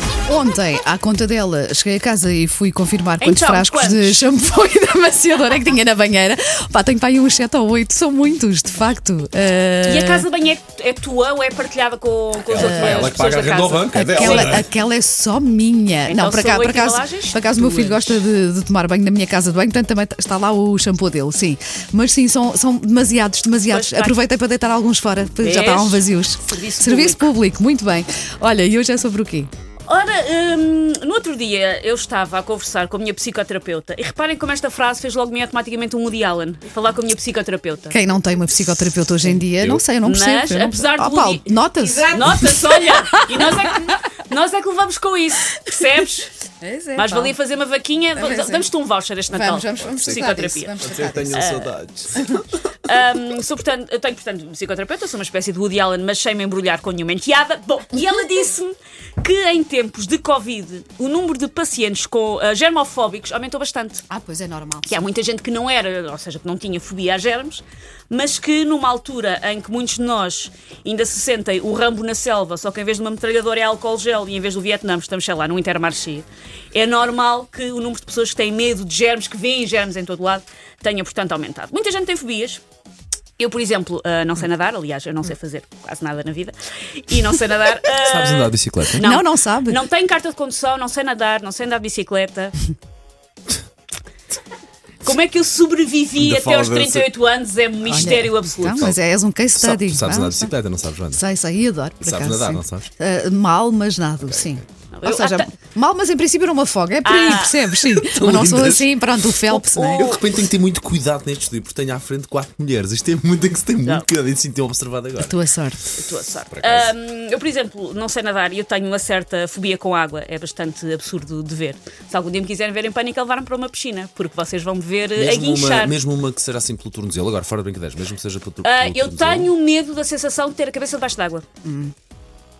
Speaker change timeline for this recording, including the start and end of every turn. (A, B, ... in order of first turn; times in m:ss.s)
0:00.3-0:10.2 A
0:03.2-0:04.2 B
0:09.8-0:14.6 B
0:12.5-0:14.7 C
0:12.6-0:13.2 A
0:13.9-0:29.5 A
0:16.1-0:18.2 B
0:23.7-0:24.2 B
0:25.4-0:27.3 B
0:29.8-0:38.0 B
0:37.9-0:43.9 A
0:39.3-0:39.8 C
0:40.0-0:41.5 B
0:42.0-0:46.3 B
0:46.6-0:47.3 A
0:46.9-0:50.8 B
0:48.2-0:48.7 A
0:49.3-0:51.4 A
0:49.8-0:52.3 C
0:51.3-0:51.7 B
0:52.1-0:52.4 A
0:52.8-1:04.0 B
1:04.1-1:04.9 A
1:04.8-1:22.6 B
1:23.4-1:32.6 B
1:28.0-1:29.1 C
1:29.0-1:29.8 A
1:35.0-1:38.9 B
1:36.2-1:37.1 C
1:37.8-1:40.5 A
1:37.9-1:39.0 C
1:39.5-1:41.2 C
1:41.1-1:50.1 A
1:42.0-1:42.9 C
1:44.2-1:44.6 C
1:44.9-1:45.5 B
1:47.0-1:47.7 B
1:47.8-1:49.1 C
1:49.5-1:50.2 B
1:50.0-1:55.4 C
1:55.2-1:55.8 A
1:56.0-2:06.0 B
1:56.5-1:56.9 C
2:05.2-2:09.5 C
2:08.6-2:11.4 B
2:11.6-2:11.9 A